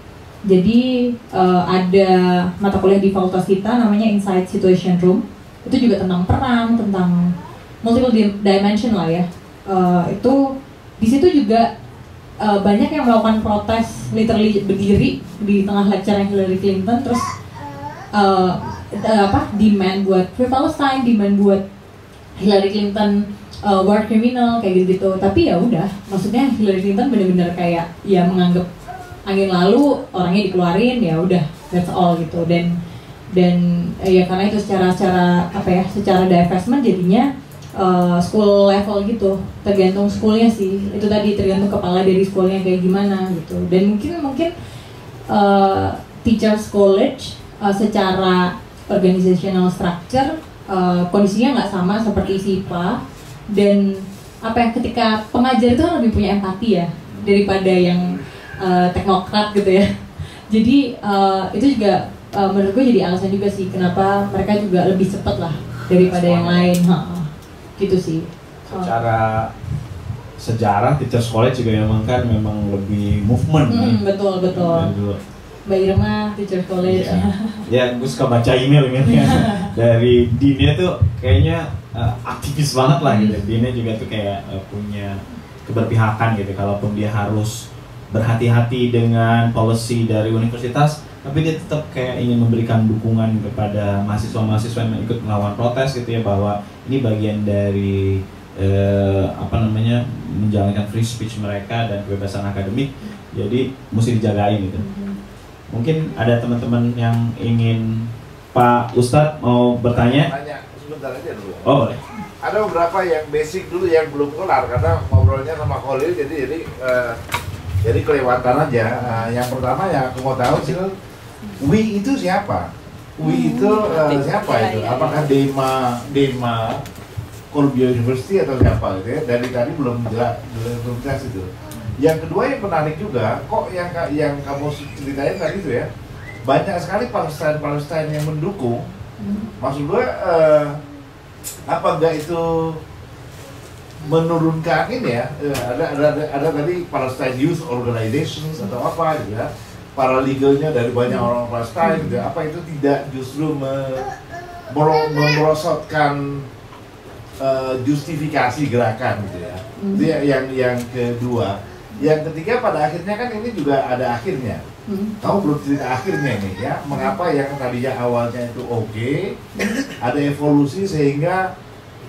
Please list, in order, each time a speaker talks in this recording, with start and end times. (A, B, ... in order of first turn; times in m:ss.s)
0:00.5-0:10.4 A
0:11.0-0:11.7 A
0:12.4-0:17.3 A
0:18.1-0:21.6 A
0:22.4-0:28.6 A
0:29.3-0:32.7 A
0:33.3-0:44.5 A
0:45.3-0:59.9 A
0:57.1-0:57.4 B
1:00.5-1:09.0 A
1:05.9-1:06.7 B
1:08.7-1:09.5 B
1:10.4-1:15.2 B
1:13.7-1:14.9 A
1:15.7-1:17.6 A
1:16.8-1:44.8 B
1:19.1-1:19.7 A
1:23.1-1:23.4 A
1:44.8-1:45.2 A
1:45.7-1:50.3 B
1:49.9-1:51.7 C
1:51.6-1:52.0 B
1:52.4-1:57.2 C
1:57.8-2:00.9 C
2:01.6-2:02.7 C
2:03.2-2:06.8 C
2:03.2-2:03.7 A
2:07.5-2:15.9 C
2:16.4-2:18.8 C
2:19.2-2:19.5 A
2:19.6-2:20.8 C
2:21.7-2:22.8 C
2:24.0-2:34.1 C
2:31.8-2:32.2 A
2:34.7-2:36.4 C
2:37.4-2:44.6 C
2:39.8-2:40.1 A
2:44.9-2:45.2 A
2:45.2-2:49.3 C
2:49.9-2:51.4 C